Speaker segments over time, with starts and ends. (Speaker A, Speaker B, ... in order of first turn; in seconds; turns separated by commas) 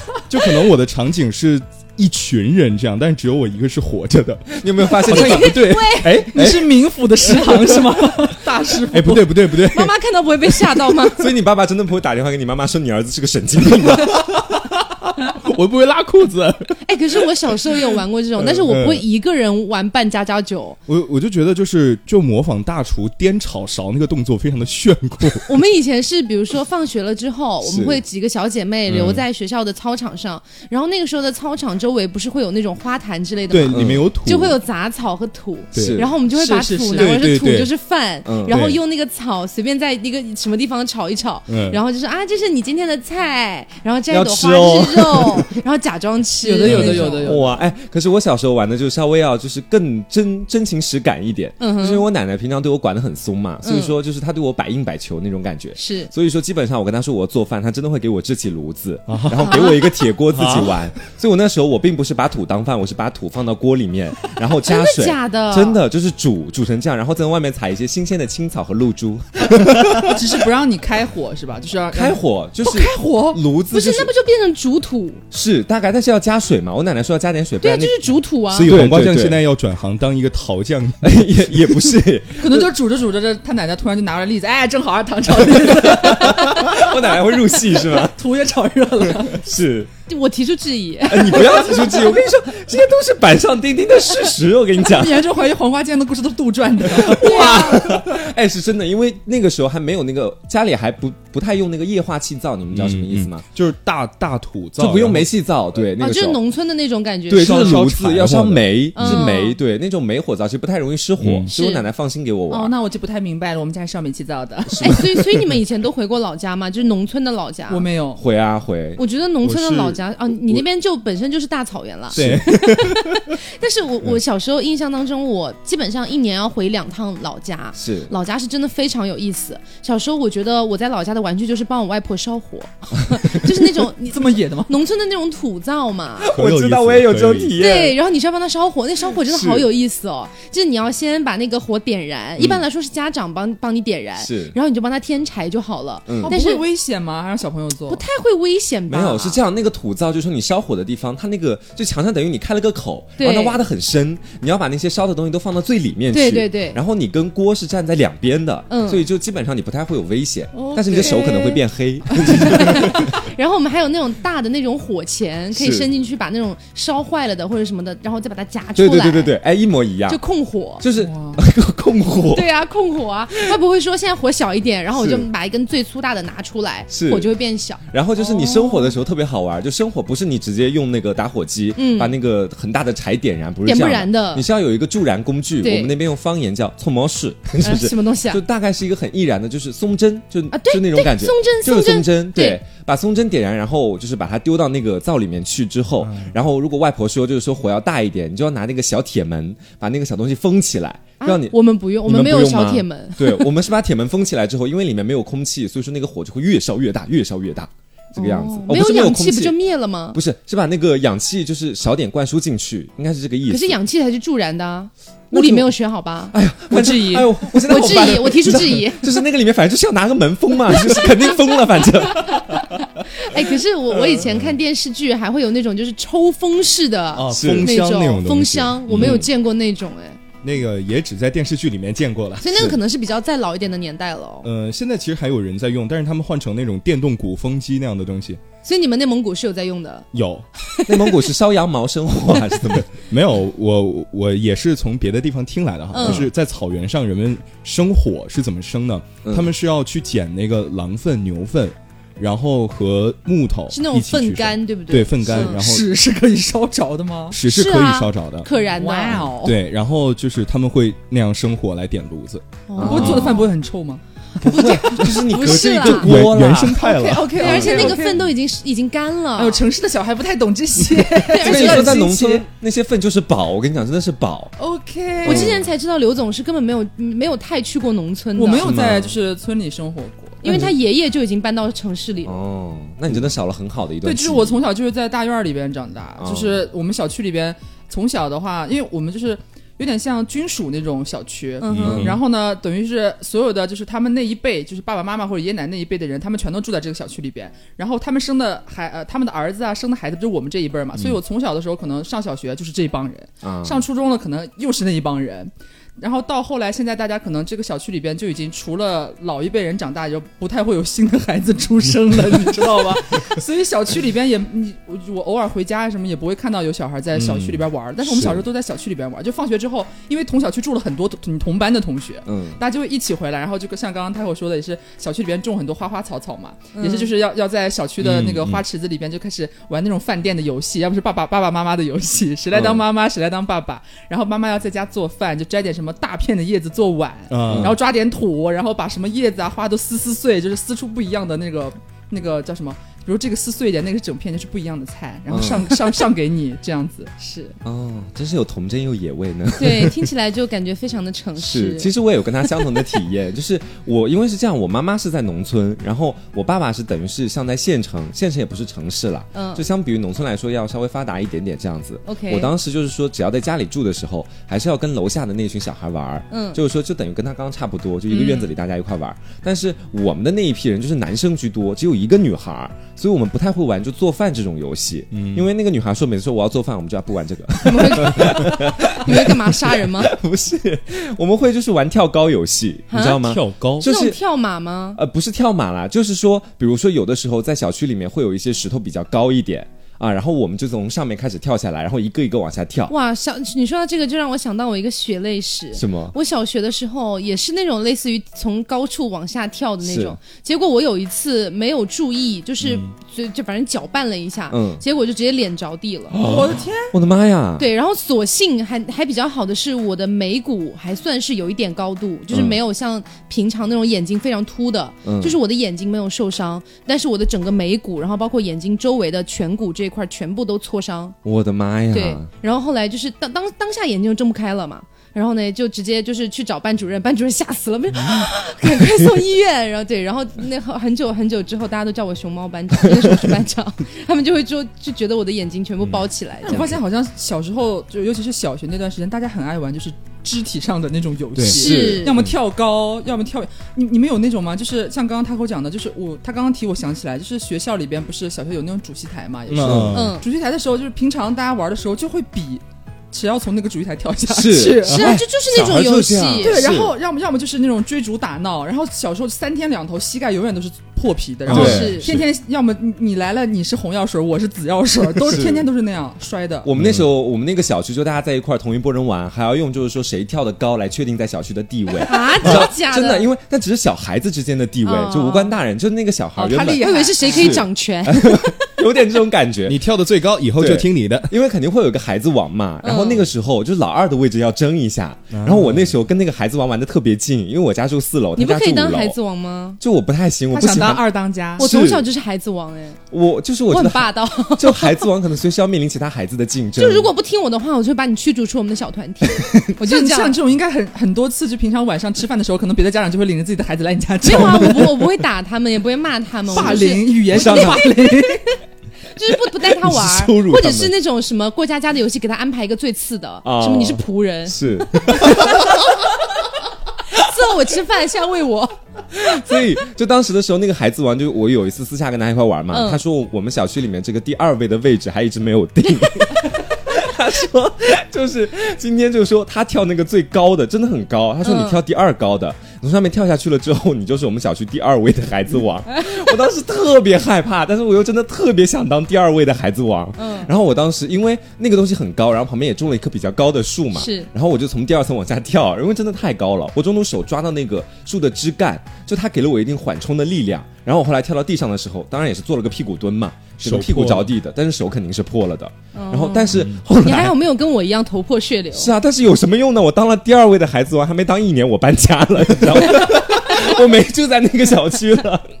Speaker A: 0.3-6.7, Speaker B: 4.5-5.8, Speaker C: 5.1-6.3, Speaker D: 6.1-9.3, Speaker A: 7.2-8.3, Speaker A: 8.9-11.1, Speaker C: 9.6-11.3, Speaker B: 11.1-14.3, Speaker A: 13.9-16.8, Speaker C: 16.8-20.8, Speaker A: 18.4-19.0, Speaker A: 20.9-25.5, Speaker C: 25.4-47.4, Speaker B: 27.6-28.0, Speaker A: 28.9-29.2, Speaker A: 33.5-34.6, Speaker B: 33.7-34.0, Speaker A: 35.7-36.0, Speaker B: 35.7-36.1, Speaker D: 36.3-37.2, Speaker A: 36.9-37.7, Speaker B: 38.2-38.6, Speaker A: 38.5-38.8, Speaker A: 41.5-41.8, Speaker B: 44.1-45.5, Speaker D: 46.4-47.5, Speaker A: 46.7-46.9, Speaker B: 46.7-70.2, Speaker C: 51.6-52.0, Speaker C: 53.6-54.0, Speaker C: 55.8-56.1, Speaker A: 59.1-59.7, Speaker C: 59.4-59.8, Speaker A: 60.3-60.8, Speaker C: 64.6-65.8, Speaker D: 70.1-73.4, Speaker B: 71.9-74.1, Speaker C: 73.7-75.2, Speaker B: 75.3-78.0, Speaker C: 77.6-78.8, Speaker A: 78.5-81.8, Speaker B: 78.6-79.4, Speaker B: 81.0-82.7, Speaker D: 82.4-89.5, Speaker B: 85.4-88.1, Speaker B: 89.3-89.9, Speaker C: 90.1-92.2, Speaker B: 91.1-95.2, Speaker D: 94.8-97.8, Speaker B: 96.9-103.4, Speaker C: 97.1-98.0, Speaker A: 102.7-105.3, Speaker B: 104.8-106.4, Speaker C: 106.0-107.8, Speaker B: 107.3-112.7, Speaker A: 107.3-109.3, Speaker C: 109.0-109.6, Speaker A: 111.2-111.5, Speaker C: 111.5-111.8, Speaker D: 112.5-115.0, Speaker B: 114.7-115.1, Speaker C: 114.8-117.8, Speaker D: 117.7-118.2, Speaker B: 118.2-119.0, Speaker C: 119.0-136.3, Speaker A: 119.4-120.0, Speaker B: 122.1-122.5, Speaker A: 122.1-123.2, Speaker B: 127.8-128.1, Speaker D: 134.1-134.7, Speaker B: 136.2-138.0, Speaker A: 136.3-137.5, Speaker C: 137.6-146.6, Speaker B: 139.3-139.7, Speaker B: 142.4-142.6, Speaker B: 144.2-144.6, Speaker B: 146.1-146.3, Speaker D: 146.2-148.0, Speaker C: 147.9-149.4, Speaker B: 148.9-163.2, Speaker C: 153.2-153.6, Speaker C: 156.1-156.8, Speaker C: 158.7-159.1, Speaker C: 160.5-161.6, Speaker C: 162.2-169.3, Speaker B: 165.5-165.9, Speaker B: 168.8-170.2, Speaker C: 170.1-170.8, Speaker B: 170.8-172.5, Speaker D: 170.9-171.4, Speaker C: 172.3-178.9, Speaker B: 174.9-175.3, Speaker B: 176.9-177.3, Speaker B: 177.9-209.6, Speaker C: 181.8-182.2, Speaker C: 183.7-184.4, Speaker C: 185.6-185.9, Speaker C: 187.6-188.4, Speaker C: 190.5-192.6, Speaker A: 196.0-196.3, Speaker C: 201.2-203.5, Speaker C: 208.1-210.2, Speaker B: 210.1-213.8, Speaker C: 213.5-219.1, Speaker B: 215.3-215.7, Speaker B: 216.3-222.8, Speaker C: 220.7-230.2, Speaker B: 223.9-224.6, Speaker A: 227.1-229.2, Speaker B: 227.3-227.7, Speaker B: 228.9-229.3, Speaker A: 230.4-232.5, Speaker C: 232.4-234.5, Speaker B: 232.5-232.8, Speaker A: 234.4-238.4, Speaker C: 238.6-240.1, Speaker A: 240.1-240.4, Speaker C: 240.6-241.1, Speaker B: 240.9-242.9, Speaker A: 243.0-255.9, Speaker C: 245.9-246.2, Speaker B: 246.0-246.2, Speaker B: 249.2-249.5, Speaker C: 253.7-255.6, Speaker D: 255.2-257.4, Speaker A: 257.3-258.5, Speaker C: 257.5-259.3, Speaker D: 258.6-259.6, Speaker A: 259.4-263.2, Speaker C: 262.7-263.5, Speaker B: 262.8-263.3, Speaker D: 262.8-264.0, Speaker B: 264.4-266.8, Speaker C: 264.4-266.2, Speaker A: 265.8-267.9, Speaker D: 266.7-268.2, Speaker C: 266.8-269.6, Speaker B: 267.4-268.0, Speaker D: 269.4-272.4, Speaker C: 271.3-272.0, Speaker B: 271.4-274.5, Speaker D: 274.6-275.5, Speaker B: 275.2-275.7, Speaker C: 275.2-278.7, Speaker D: 278.4-280.7, Speaker B: 278.5-279.1, Speaker C: 280.4-282.4, Speaker B: 282.2-284.6, Speaker D: 284.0-347.1, Speaker B: 286.2-286.6, Speaker C: 291.6-292.0, Speaker A: 291.7-292.2, Speaker B: 291.8-292.1, Speaker B: 303.4-303.8, Speaker A: 317.1-317.6, Speaker B: 318.1-318.4, Speaker B: 322.2-322.6, Speaker C: 326.7-327.1, Speaker A: 328.0-328.6, Speaker B: 332.5-332.8, Speaker A: 337.3-337.8, Speaker B: 337.5-337.8, Speaker B: 345.3-345.8, Speaker C: 347.2-347.6, Speaker B: 347.6-350.0, Speaker C: 349.6-351.9, Speaker B: 351.4-384.2, Speaker C: 352.5-352.8, Speaker C: 359.3-359.6, Speaker C: 362.0-362.5, Speaker C: 366.3-366.6, Speaker C: 368.1-368.5, Speaker A: 375.1-375.5, Speaker C: 377.6-380.1, Speaker C: 382.9-385.0, Speaker A: 383.2-383.9, Speaker B: 384.9-392.9, Speaker C: 392.9-406.2, Speaker B: 395.7-396.1, Speaker B: 399.8-400.2, Speaker B: 404.5-404.8, Speaker B: 406.1-407.7, Speaker D: 406.2-406.9, Speaker C: 407.6-421.2, Speaker B: 412.3-412.6, Speaker B: 415.0-415.4, Speaker B: 421.2-422.3, Speaker C: 421.9-436.8, Speaker B: 428.7-429.1, Speaker D: 436.4-455.2, Speaker C: 441.5-442.2, Speaker B: 441.5-442.3, Speaker A: 449.5-450.1, Speaker B: 449.6-450.0, Speaker C: 449.9-450.2, Speaker B: 454.3-456.9, Speaker C: 454.8-456.6, Speaker D: 456.4-466.7, Speaker A: 461.5-461.9, Speaker B: 461.5-462.2, Speaker C: 461.5-462.1, Speaker B: 465.3-465.7, Speaker B: 466.6-479.8, Speaker A: 466.8-467.1, Speaker C: 472.0-473.3, Speaker C: 474.8-475.6, Speaker D: 476.4-477.6, Speaker C: 476.6-478.7, Speaker A: 479.6-481.3, Speaker B: 480.6-489.2, Speaker C: 482.8-483.3, Speaker A: 485.3-486.0, Speaker C: 488.4-489.8, Speaker B: 489.8-491.0, Speaker D: 490.5-491.7, Speaker B: 491.6-492.0, Speaker C: 491.6-493.0, Speaker B: 493.1-497.1, Speaker C: 493.7-495.1, Speaker C: 496.8-500.4, Speaker D: 499.8-505.0, Speaker C: 504.2-507.9, Speaker D: 506.5-508.6, Speaker B: 506.6-507.8, Speaker C: 509.1-514.6, Speaker B: 509.6-510.9, Speaker B: 513.4-515.9, Speaker C: 515.1-515.8, Speaker C: 517.1-518.8, Speaker B: 519.1-557.4, Speaker C: 522.7-523.0, Speaker C: 531.4-531.8, Speaker C: 540.2-540.5, Speaker C: 543.9-544.3, Speaker A: 553.6-554.3, Speaker C: 555.9-558.9, Speaker B: 558.7-565.5